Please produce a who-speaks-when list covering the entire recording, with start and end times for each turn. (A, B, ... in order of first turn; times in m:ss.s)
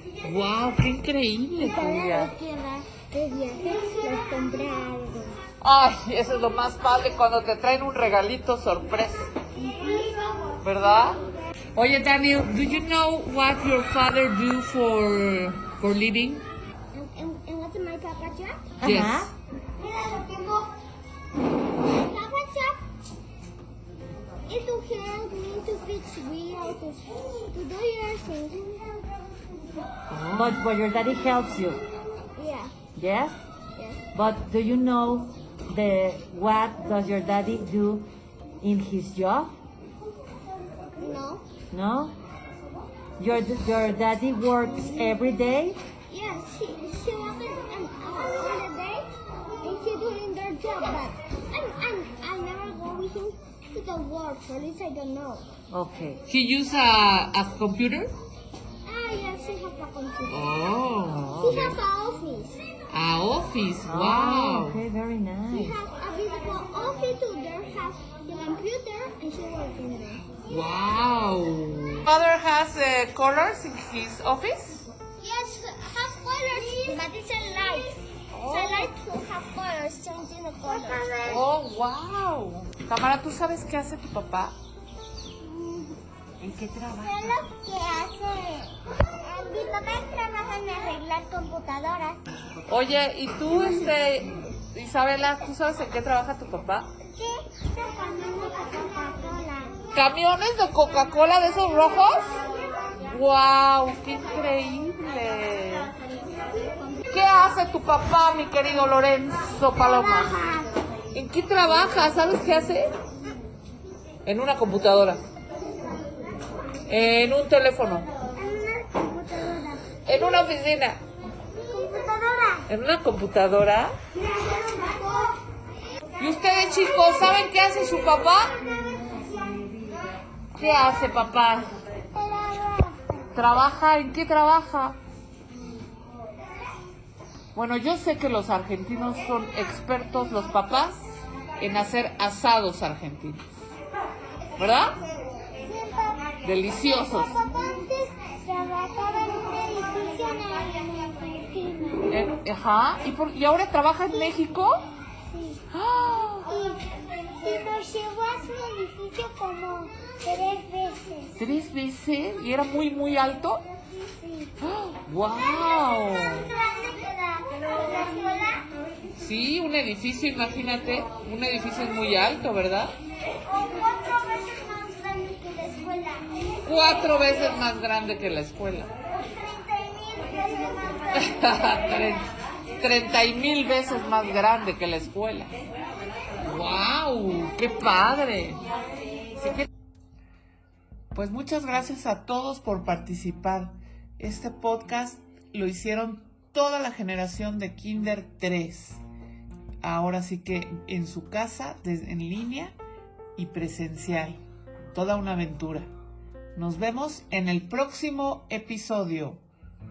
0:00.2-0:02.3 A
0:01.6-0:05.4 B
0:05.6-0:09.3 A
0:09.5-0:11.3 B
0:10.6-0:11.2 A
0:11.8-0:16.5 A
0:16.9-0:18.6 B
0:18.8-0:19.3 A
0:18.8-0:19.3 C
0:19.8-0:20.6 B
0:21.9-0:22.8 B
0:24.5-0:29.9 B
0:30.1-0:30.5 A
0:30.3-0:31.8 C
0:32.4-0:32.7 B
0:32.9-0:33.4 C
0:33.8-0:34.0 B
0:34.1-0:39.5 C
0:41.0-0:41.4 B
0:41.7-0:42.2 C
0:43.2-0:45.8 C
0:46.1-0:55.4 B
0:55.7-0:56.2 C
0:56.3-0:58.1 A
0:58.8-1:00.5 B
1:00.3-1:01.8 A
1:01.4-1:02.6 B
1:02.9-1:04.8 A
1:03.8-1:05.8 C
1:05.5-1:10.3 B
1:10.5-1:14.9 A
1:15.2-1:18.0 B
1:18.3-1:18.9 A
1:18.5-1:21.4 B
1:21.2-1:24.5 A
1:25.4-1:26.0 B
1:26.4-1:27.4 A
1:26.9-1:32.2 B
1:32.7-1:36.9 A
1:37.0-1:39.8 B
1:39.9-1:42.3 A
1:43.1-1:45.9 A
1:47.1-1:50.3 A
1:49.8-1:50.7 B
1:51.1-1:52.9 A
1:54.2-1:55.2 A
1:56.9-1:58.1 A
1:58.3-2:00.4 B
2:00.0-2:01.0 A
2:01.5-2:02.7 B
2:02.7-2:03.9 A
2:04.1-2:05.4 B
2:06.2-2:08.6 A
2:09.4-2:10.0 C
2:10.5-2:11.8 A
2:12.1-2:13.3 B
2:13.3-2:15.0 A
2:17.5-2:23.5 A
2:24.6-2:25.0 A
2:24.6-2:32.1 B
2:26.4-2:27.3 A
2:32.1-2:34.8 A
2:35.2-2:35.6 B
2:35.7-2:36.5 A
2:36.4-2:41.4 B
2:41.4-2:43.6 A
2:43.8-2:44.5 B
2:44.6-2:46.5 A
2:45.3-2:48.6 B
2:49.2-2:52.9 A
2:53.4-2:57.7 B
2:56.6-2:58.9 A
2:59.2-3:02.3 B
3:01.2-3:05.5 A
3:06.4-3:08.6 A
3:09.4-3:09.7 A
3:11.1-3:19.0 A
3:19.8-3:22.7 A
3:23.4-3:25.9 A
3:26.6-3:29.4 A